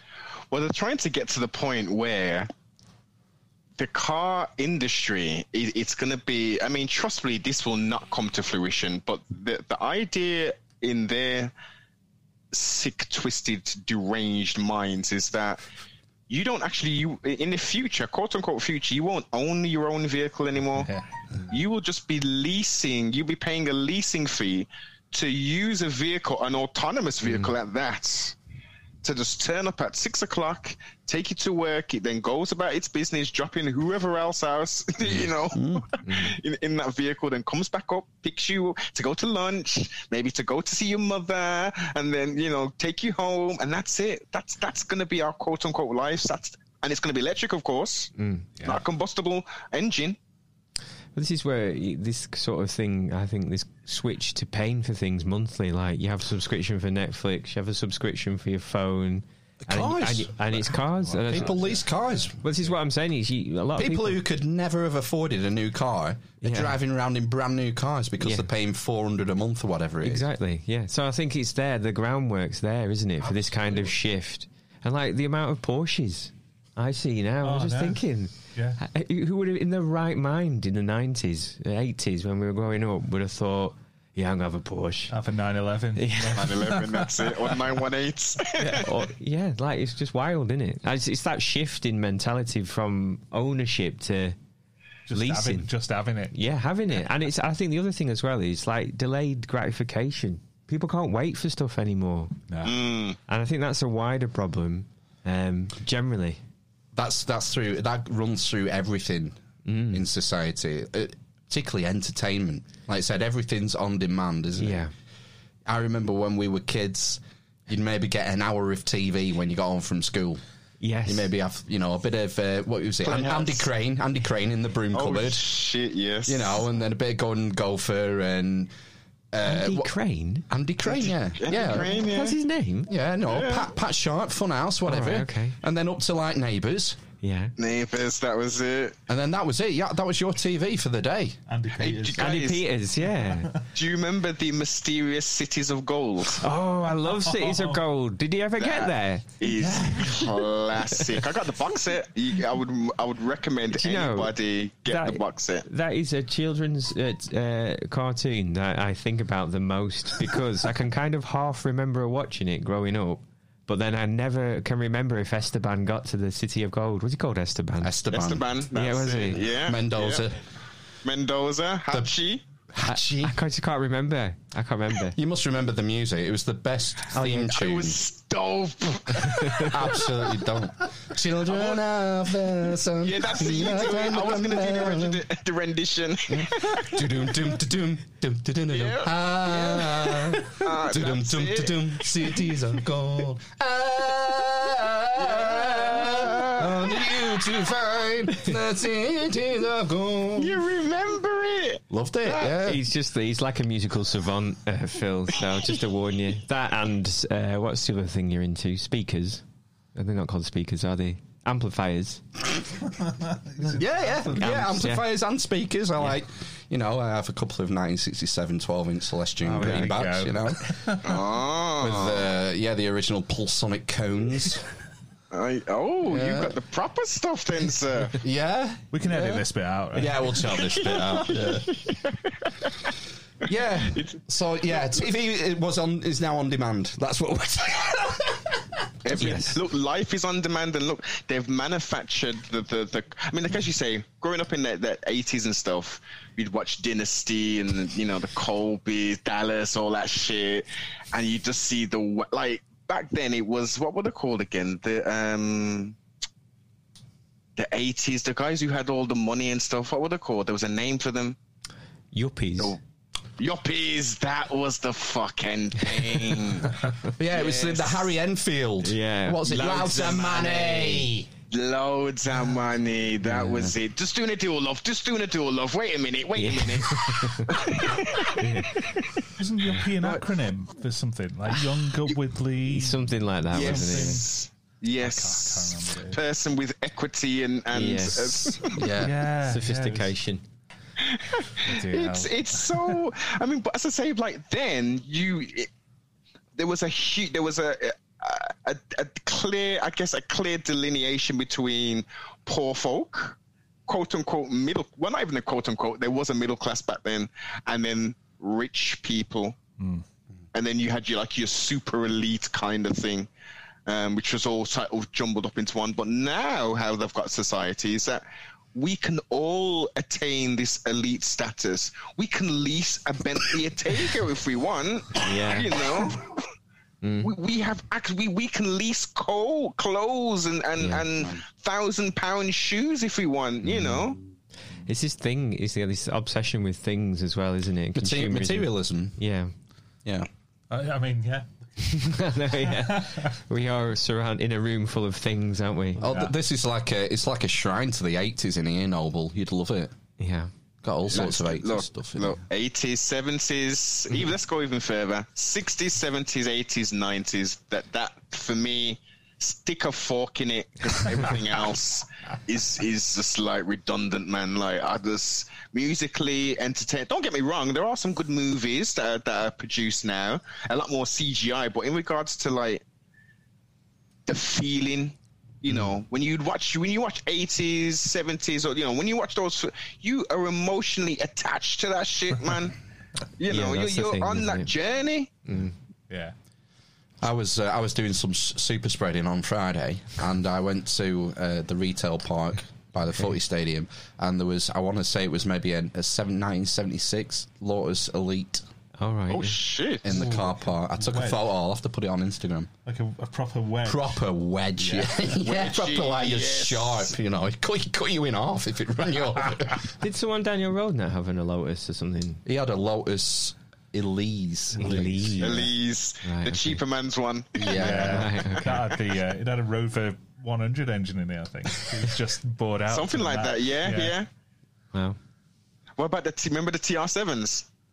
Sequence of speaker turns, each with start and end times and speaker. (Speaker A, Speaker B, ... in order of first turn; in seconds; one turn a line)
Speaker A: 0.5-2.5
Speaker A: 3.8-11.5
Speaker A: 12.5-15.6
Speaker A: 16.3-20.9
Speaker B: 20.8-21.1
Speaker A: 21.5-28.4
Speaker A: 29.0-48.1
Speaker C: 35.5-35.9
Speaker D: 36.0-36.4
Speaker D: 48.2-48.5
Speaker A: 48.6-50.2
Speaker D: 51.1-61.6
Speaker C: 59.6-60.4
Speaker B: 60.6-62.7
Speaker C: 61.3-62.4
Speaker D: 62.4-64.2
Speaker C: 63.8-70.3
Speaker D: 66.4-66.8
Speaker D: 68.2-68.5
Speaker D: 70.0-85.1
Speaker C: 73.6-73.9
Speaker B: 77.4-78.0
Speaker B: 78.5-78.8
Speaker B: 85.1-87.7
Speaker D: 86.0-86.4
Speaker A: 86.3-88.7
Speaker D: 88.6-94.4
Speaker B: 95.1-96.4
Speaker D: 95.1-95.7
Speaker D: 96.3-102.3
Speaker B: 102.5-102.8
Speaker A: 102.7-103.2
Speaker D: 103.3-106.4
Speaker C: 106.9-109.4
Speaker D: 109.7-110.0
Speaker C: 109.9-114.8
Speaker D: 114.6-114.9
Speaker C: 115.7-120.4
Speaker D: 120.8-121.3
Speaker C: 121.1-125.4
Speaker A: 123.0-123.7
Speaker A: 124.9-126.6
Speaker C: 126.3-128.7
Speaker C: 129.3-129.9
Speaker D: 129.4-130.5
Speaker C: 130.5-131.9
Speaker A: 131.0-132.4
Speaker D: 131.5-132.9
Speaker C: 132.9-137.0
Speaker A: 133.3-133.7
Speaker D: 134.9-135.6
Speaker D: 137.2-137.5
Speaker A: 137.6-139.0
Speaker C: 139.1-141.4
Speaker B: 141.5-142.4
Speaker A: 141.9-142.6
Speaker D: 142.2-143.5
Speaker B: 143.0-143.6
Speaker A: 143.7-146.4
Speaker D: 146.4-149.3
Speaker B: 147.1-147.8
Speaker A: 148.6-155.7
Speaker D: 153.7-154.3
Speaker D: 154.9-168.0
Speaker C: 167.8-168.5
Speaker A: 168.1-170.2
Speaker D: 168.8-169.4
Speaker C: 169.6-170.3
Speaker A: 171.1-172.4
Speaker C: 172.7-173.4
Speaker D: 172.8-175.2
Speaker C: 175.2-178.0
Speaker A: 177.2-179.9
Speaker C: 179.7-185.2
Speaker A: 181.5-181.8
Speaker A: 183.0-186.9
Speaker C: 186.3-200.6
Speaker A: 188.7-192.1
Speaker A: 195.2-196.7
Speaker A: 200.4-202.6
Speaker C: 201.9-202.8
Speaker D: 202.5-209.4
Speaker D: 209.9-212.2
Speaker B: 213.0-214.5
Speaker C: 213.7-220.6
Speaker D: 214.3-215.1
Speaker B: 219.4-221.2
Speaker D: 219.6-219.9
Speaker A: 221.0-222.3
Speaker C: 221.8-224.6
Speaker A: 225.3-228.2
Speaker C: 226.1-226.5
Speaker C: 228.2-231.7
Speaker B: 228.9-231.6
Speaker A: 230.6-232.1
Speaker C: 233.4-238.4
Speaker A: 239.0-255.9
Speaker D: 239.2-239.6
Speaker A: 257.6-261.4
Speaker D: 262.1-262.8
Speaker A: 263.4-266.7
Speaker C: 267.2-271.3
Speaker A: 267.3-268.1
Speaker D: 268.8-269.6
Speaker A: 269.5-278.3
Speaker D: 273.2-273.7
Speaker D: 276.4-277.8
Speaker D: 278.4-279.1
Speaker B: 279.4-284.3
Speaker D: 282.7-284.2
Speaker A: 283.5-288.8
Speaker B: 285.0-286.2
Speaker D: 287.7-288.6
Speaker C: 288.8-289.2
Speaker B: 289.0-290.1
Speaker D: 289.4-290.4
Speaker A: 291.1-295.7
Speaker B: 291.6-292.8
Speaker A: 296.6-303.4
Speaker A: 303.9-309.6
Speaker B: 309.8-310.0
Speaker A: 310.5-313.3
Speaker A: 313.9-318.2
Speaker A: 318.8-326.3
Speaker D: 325.2-325.8
Speaker D: 327.0-327.3
Speaker A: 327.2-334.2
Speaker D: 330.8-331.1
Speaker D: 333.6-334.1
Speaker D: 334.9-339.5
Speaker C: 338.0-339.2
Speaker B: 340.7-341.5
Speaker D: 341.8-346.0
Speaker B: 342.1-343.3
Speaker C: 346.0-349.9
Speaker B: 346.0-346.3
Speaker D: 350.2-350.5
Speaker C: 350.8-352.4
Speaker A: 351.1-372.8
Speaker A: 374.3-382.8
Speaker A: 383.4-385.3
Speaker D: 383.5-384.7
Speaker D: 385.5-385.8
Speaker C: 387.2-398.6
Speaker D: 399.0-399.6
Speaker A: 399.3-400.1
Speaker C: 400.0-402.7
Speaker B: 400.1-401.4
Speaker B: 402.9-404.2
Speaker C: 403.9-409.9
Speaker B: 404.8-405.1
Speaker A: 405.4-407.1
Speaker D: 410.0-412.4
Speaker C: 412.4-415.4
Speaker D: 414.8-415.7
Speaker B: 414.8-415.2
Speaker A: 415.4-418.0
Speaker D: 416.2-416.8
Speaker C: 417.6-418.3
Speaker B: 417.8-424.1
Speaker D: 418.0-418.8
Speaker A: 422.9-424.3
Speaker A: 426.0-427.7